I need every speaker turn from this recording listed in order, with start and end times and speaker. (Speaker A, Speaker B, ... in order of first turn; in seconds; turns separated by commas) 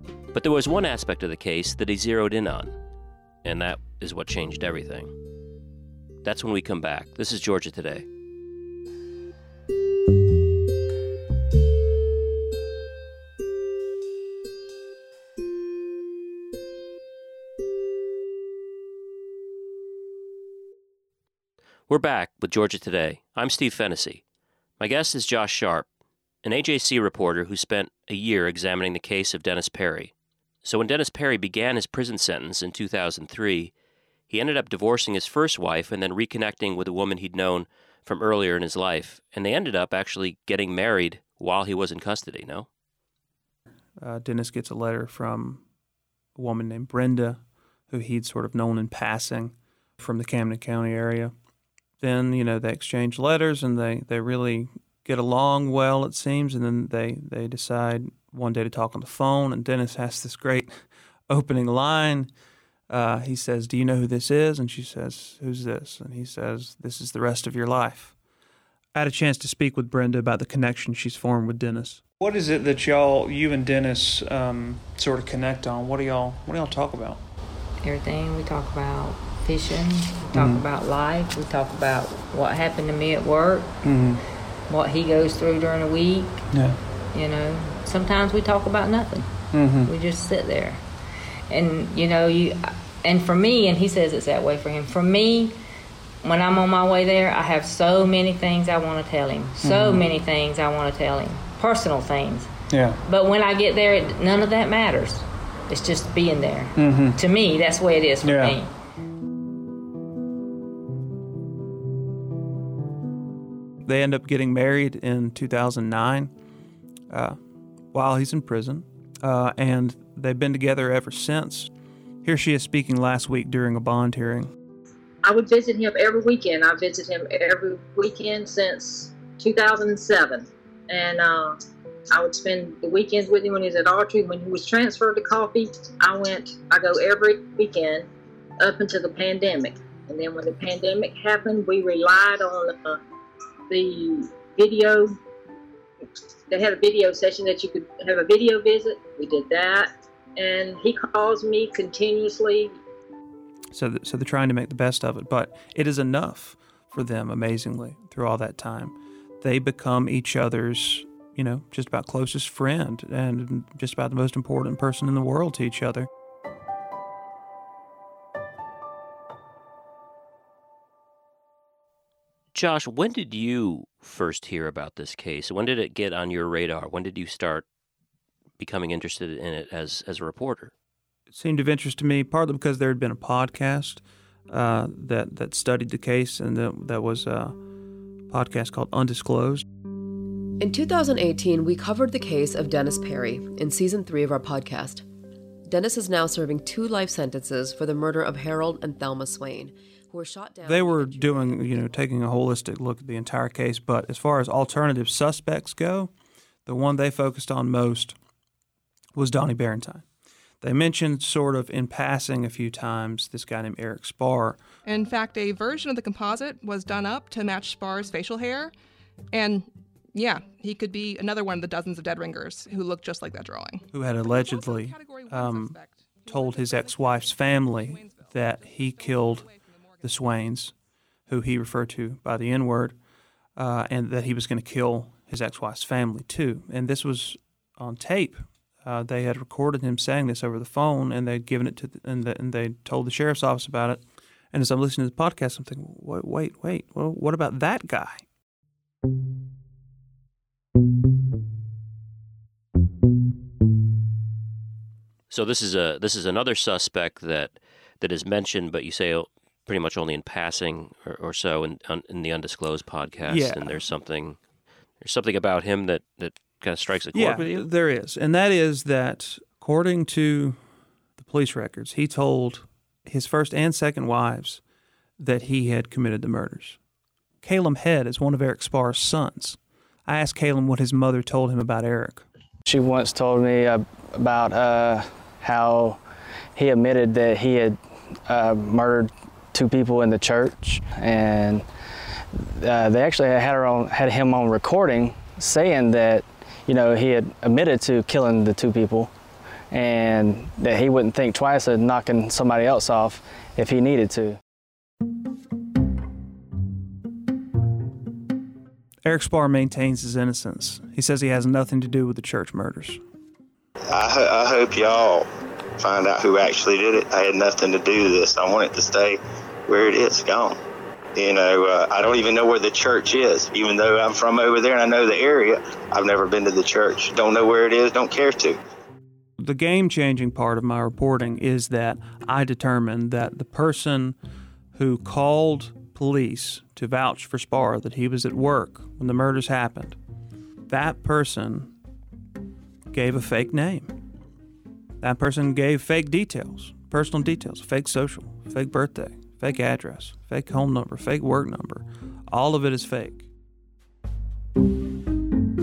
Speaker A: 0.3-2.8, Speaker A: 3.4-5.1, Speaker A: 6.2-8.1, Speaker A: 21.9-24.2, Speaker A: 24.8-25.9, Speaker A: 26.4-30.1, Speaker A: 30.6-33.7, Speaker A: 34.3-42.7, Speaker B: 44.0-45.6, Speaker B: 46.4-51.3, Speaker B: 52.0-62.3, Speaker B: 62.9-68.2, Speaker B: 69.0-77.2, Speaker C: 77.8-83.7, Speaker B: 80.3-80.6, Speaker B: 83.9-84.2, Speaker C: 84.7-86.4, Speaker C: 87.1-89.3, Speaker B: 89.6-89.9, Speaker C: 89.8-90.8, Speaker C: 91.5-95.6, Speaker C: 96.2-102.5, Speaker B: 99.6-100.0, Speaker C: 103.0-108.7, Speaker B: 106.8-107.2, Speaker B: 108.2-108.6, Speaker B: 113.8-116.3, Speaker B: 117.1-117.4, Speaker B: 117.9-121.7, Speaker B: 122.2-124.5, Speaker D: 125.2-131.6, Speaker D: 132.1-138.1, Speaker D: 138.6-143.0, Speaker D: 143.7-145.2, Speaker D: 146.5-152.8, Speaker B: 153.7-166.1, Speaker A: 172.5-177.7, Speaker A: 178.6-180.7, Speaker B: 181.3-187.6, Speaker B: 188.3-189.7, Speaker E: 190.6-195.0, Speaker E: 195.7-202.0, Speaker B: 200.7-206.1, Speaker B: 206.7-208.2, Speaker B: 209.2-210.1, Speaker B: 210.6-214.6, Speaker F: 214.8-218.7, Speaker F: 219.3-230.1, Speaker B: 223.9-229.5, Speaker B: 230.0-230.7, Speaker B: 231.3-232.9, Speaker B: 233.6-248.2, Speaker A: 255.3-264.4, Speaker B: 263.3-263.9, Speaker A: 265.0-267.7, Speaker B: 267.1-270.6, Speaker B: 271.2-274.6, Speaker B: 275.2-276.8, Speaker B: 277.4-282.2, Speaker G: 282.7-286.0, Speaker G: 286.6-291.7, Speaker G: 292.3-299.1, Speaker G: 299.7-304.4, Speaker B: 309.1-313.0, Speaker H: 313.9-315.3, Speaker H: 315.8-320.6, Speaker H: 321.2-328.6, Speaker B: 329.4-334.2, Speaker B: 334.8-340.0, Speaker B: 340.7-341.7, Speaker B: 342.9-343.9, Speaker B: 345.0-353.3